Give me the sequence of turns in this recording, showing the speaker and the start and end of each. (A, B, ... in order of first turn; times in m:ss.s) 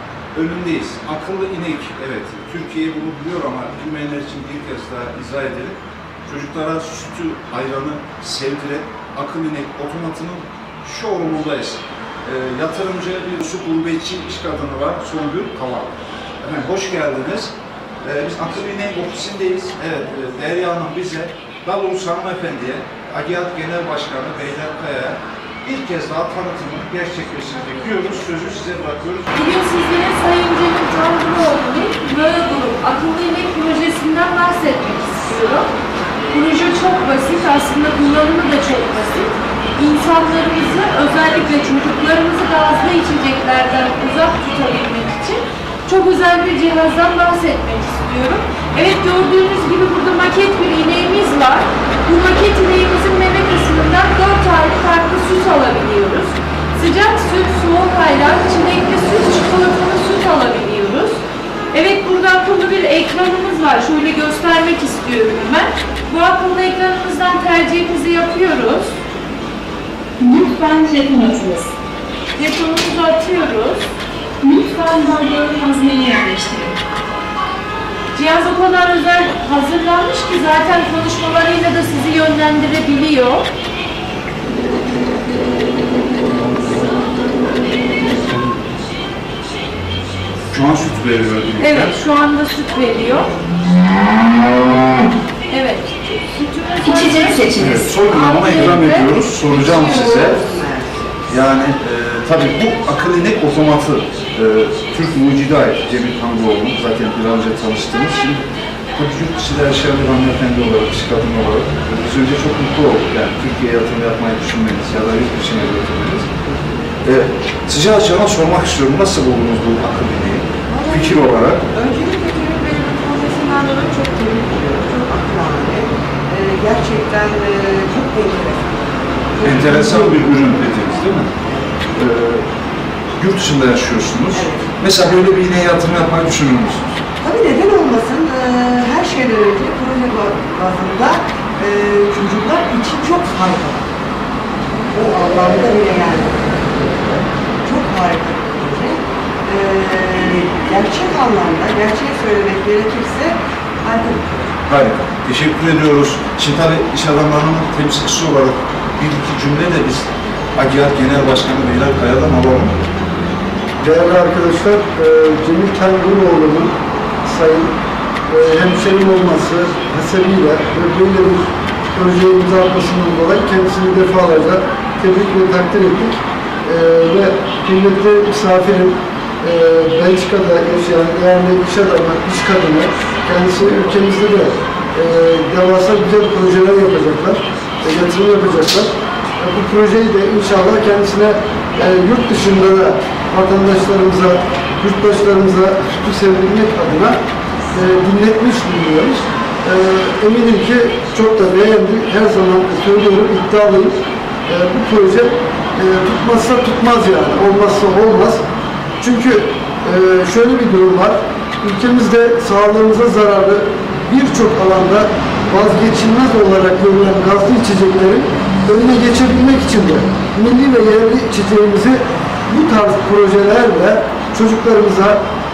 0:00.3-0:29.4 A
0:29.3-0:35.7 B
0:36.3-1:01.2 B
1:01.7-1:09.0 B
1:10.2-1:11.7 C
1:12.4-1:13.9 B
1:14.4-1:16.8 C
1:18.1-1:23.5 B
1:26.2-1:27.3 A
1:28.0-1:28.8 A
1:30.5-1:32.0 A
1:31.6-1:33.3 B
1:35.5-1:39.2 B
1:37.1-1:37.6 D
1:37.5-1:40.4 A
1:39.5-1:41.2 D
1:41.3-1:56.3 A
1:57.0-2:01.6 A
2:00.7-2:10.4 D
2:09.4-2:11.3 A
2:11.4-2:11.9 D
2:12.0-2:12.4 A
2:13.2-2:17.0 A
2:14.3-2:14.8 D
2:17.2-2:23.8 D
2:24.9-2:34.6 D
2:34.7-2:42.8 A
2:43.8-2:46.7 E
2:47.2-2:47.7 E
2:48.3-3:17.2 E
3:17.7-3:28.4 E
3:29.0-3:45.2 E